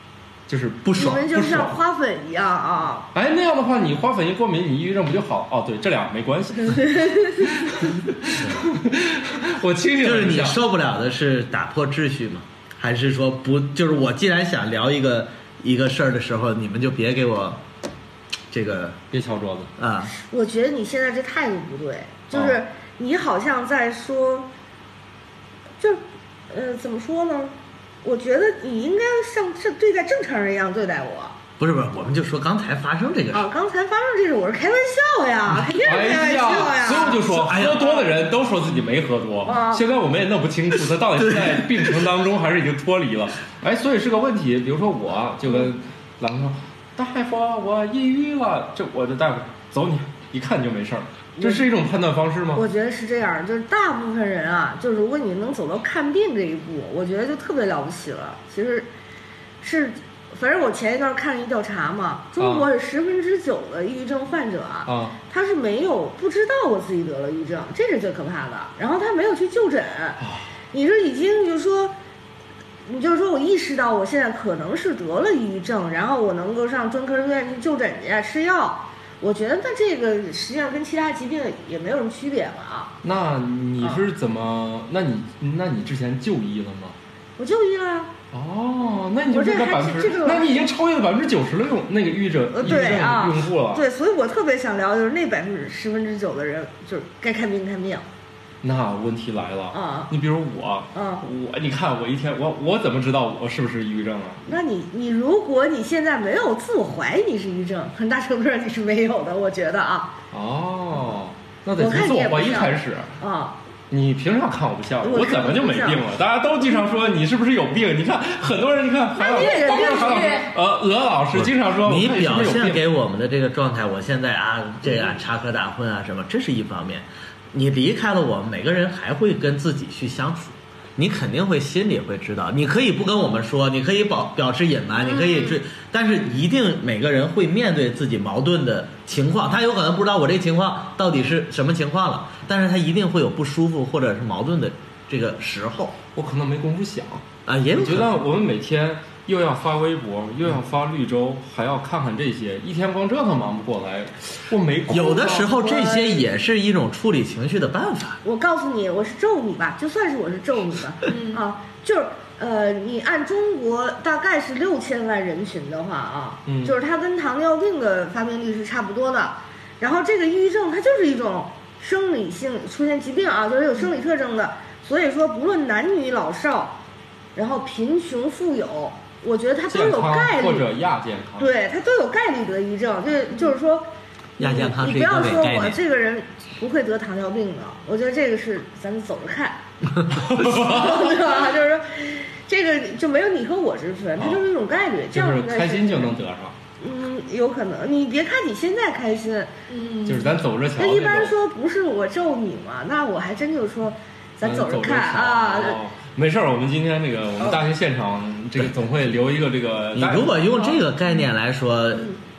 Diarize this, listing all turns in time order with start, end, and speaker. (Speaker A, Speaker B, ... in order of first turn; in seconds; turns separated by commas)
Speaker A: 0.5-1.7, Speaker B: 0.8-1.2, Speaker C: 0.9-3.1, Speaker A: 3.1-10.6, Speaker B: 8.3-8.6, Speaker B: 10.0-17.6, Speaker B: 18.5-19.0, Speaker A: 19.1-19.7, Speaker B: 19.8-20.1, Speaker C: 20.1-24.5, Speaker A: 22.3-22.6, Speaker C: 25.8-31.3, Speaker B: 31.6-33.5, Speaker C: 33.3-37.3, Speaker A: 35.8-52.6, Speaker B: 37.2-37.9, Speaker C: 37.8-38.1, Speaker C: 39.4-39.8, Speaker B: 41.2-41.9, Speaker C: 51.4-51.6, Speaker C: 52.5-58.9, Speaker C: 59.6-70.2, Speaker A: 62.4-62.7, Speaker A: 64.9-65.2, Speaker A: 70.2-70.5, Speaker C: 70.7-71.9, Speaker C: 72.8-82.9, Speaker A: 83.0-87.0, Speaker C: 87.4-88.1, Speaker A: 88.3-93.8, Speaker C: 89.3-90.6, Speaker C: 92.5-98.0, Speaker A: 98.6-104.4, Speaker C: 99.7-100.1, Speaker C: 100.9-101.2, Speaker C: 104.5-110.1, Speaker A: 110.3-113.1, Speaker C: 111.8-113.6, Speaker A: 113.9-122.8, Speaker C: 115.0-116.0, Speaker C: 119.2-120.5, Speaker D: 119.2-120.5, Speaker B: 121.3-146.0, Speaker C: 135.1-135.6, Speaker A: 146.1-155.6, Speaker B: 147.4-148.2, Speaker B: 154.9-158.2, Speaker C: 155.2-156.3, Speaker C: 158.2-176.8, Speaker D: 161.1-161.4, Speaker A: 166.4-166.7, Speaker C: 177.3-180.7, Speaker A: 179.7-181.5, Speaker C: 181.4-189.7, Speaker B: 184.4-185.8, Speaker A: 190.1-191.2, Speaker C: 190.3-196.1, Speaker A: 194.2-194.4, Speaker A: 195.1-196.6, Speaker C: 196.8-199.6, Speaker D: 199.7-200.2, Speaker A: 200.0-201.3, Speaker C: 200.8-205.8, Speaker A: 204.4-210.5, Speaker B: 209.9-212.2